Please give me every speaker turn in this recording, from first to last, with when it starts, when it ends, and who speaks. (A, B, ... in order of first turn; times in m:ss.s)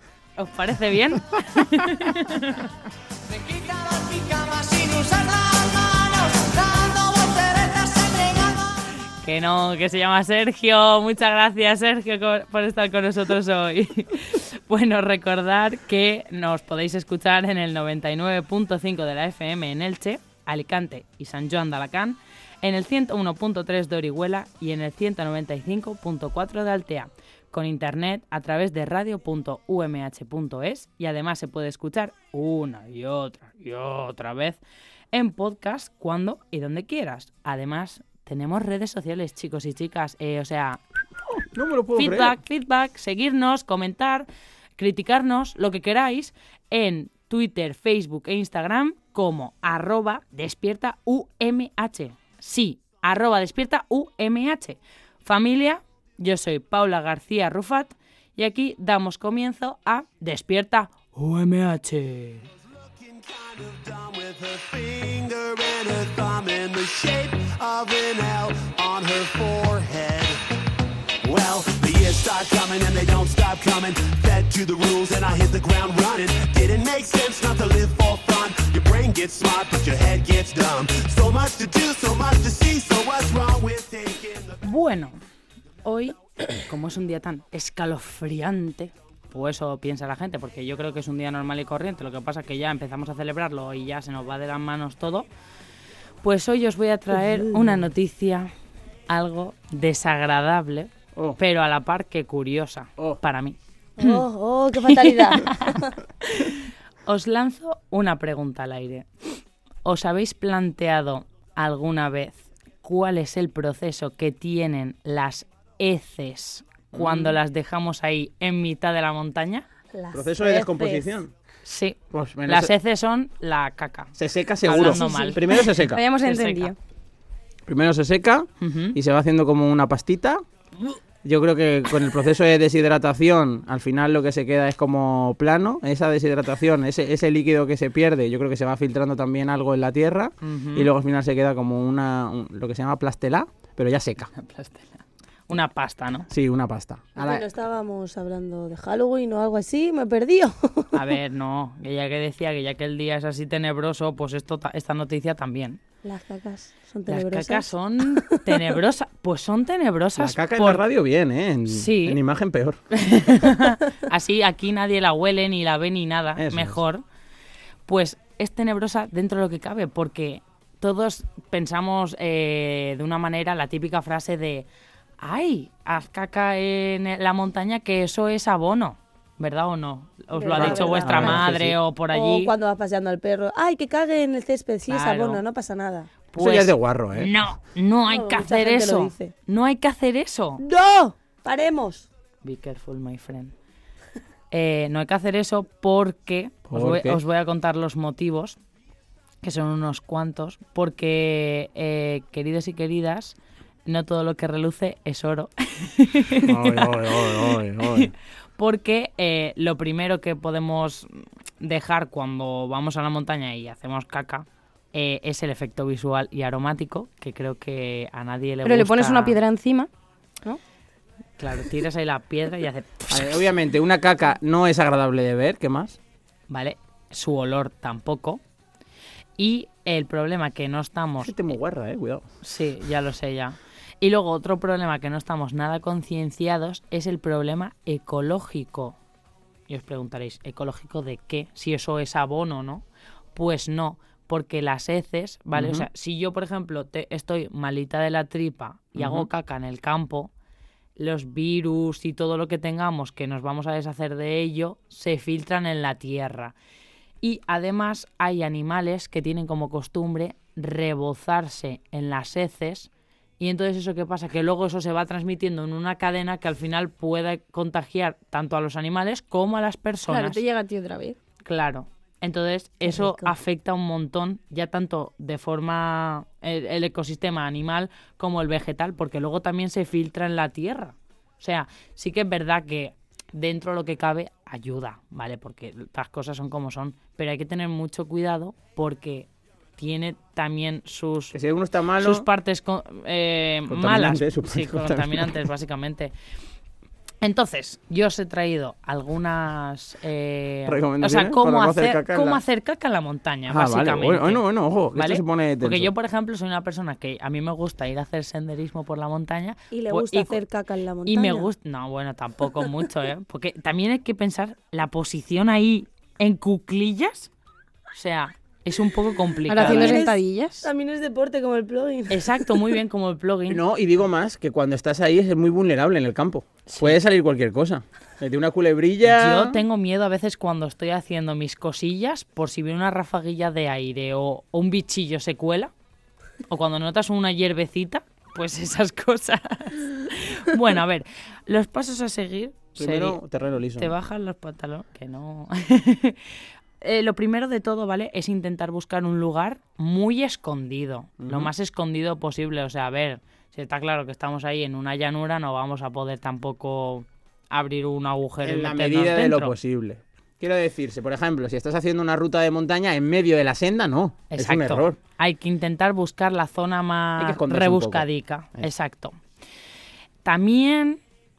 0:00.4-0:02.7 A
0:03.7-0:08.3 B
0:09.2-0:34.6 A
0:35.1-0:40.8 A
0:41.4-0:42.4 C
0:41.9-1:02.5 A
1:02.9-1:10.4 D
1:11.2-1:24.6 D
1:24.6-1:25.2 A
1:25.8-1:35.3 A
1:36.2-1:38.5 A
1:39.1-1:44.2 A
1:44.0-1:45.9 E
1:45.4-1:49.1 A
1:49.8-1:59.7 A
1:56.9-1:57.4 C
1:59.9-2:01.1 E
2:00.1-2:01.3 C
2:01.6-2:05.4 A
2:02.1-2:02.7 C
2:04.2-2:06.0 C
2:04.8-2:06.8 F
2:06.2-2:06.7 A
2:07.7-2:10.4 C
2:08.6-2:09.0 A
2:11.2-2:24.3 C
2:20.4-2:20.9 A
2:24.3-2:26.3 A
2:26.3-2:27.4 C
2:27.2-2:30.9 E
2:30.9-2:35.8 A
2:36.0-2:38.2 E
2:37.1-2:40.8 A
2:40.2-2:42.8 C
2:41.7-2:42.2 A
2:42.9-2:47.0 A
2:46.4-2:46.8 C
2:47.9-2:54.6 A
2:55.2-3:02.5 A
3:00.3-3:01.4 E
3:00.5-3:01.8 C
3:02.1-3:06.1 E
3:04.9-3:05.4 A
3:06.3-3:10.6 A
3:06.4-3:07.3 C
3:08.1-3:09.3 E
3:10.6-3:12.1 E
3:12.4-3:13.5 A
3:14.5-3:18.6 A
3:16.7-3:17.2 C
3:19.4-3:23.3 A
3:23.8-3:31.1 A
3:26.4-3:28.1 C
3:31.6-3:39.4 A
3:38.6-3:39.9 F
3:41.4-3:43.4 A
3:43.1-3:46.0 C
3:46.5-3:48.4 A
3:49.4-3:51.6 A
3:51.2-3:52.2 C
3:52.4-3:59.0 A
3:59.7-4:10.3 A
4:05.5-4:05.9 C
4:09.0-4:09.3 C
4:11.0-4:16.5 A
4:17.2-4:22.9 A
4:23.4-4:30.4 A
4:30.1-4:31.2 F
4:31.4-4:51.4 A
4:51.3-4:52.3 C
4:52.0-4:56.1 A
4:53.7-4:55.4 C
4:57.2-5:10.4 A
5:00.7-5:02.4 C
5:03.5-5:05.9 C
5:09.7-5:11.5 E
5:11.0-5:17.3 A
5:17.9-5:20.0 A
5:19.5-5:20.7 F
5:19.5-5:22.6 E
5:22.1-5:23.6 A
5:23.5-5:29.6 C
5:26.7-5:27.0 A
5:29.0-5:35.7 A
5:36.5-5:43.2 A
5:42.7-5:43.9 C
5:43.8-5:46.2 A
5:46.8-5:59.6 A
5:51.2-5:51.5 C
5:58.4-6:05.0 C
6:04.3-6:09.2 A
6:07.2-6:08.7 C
6:10.2-6:11.0 A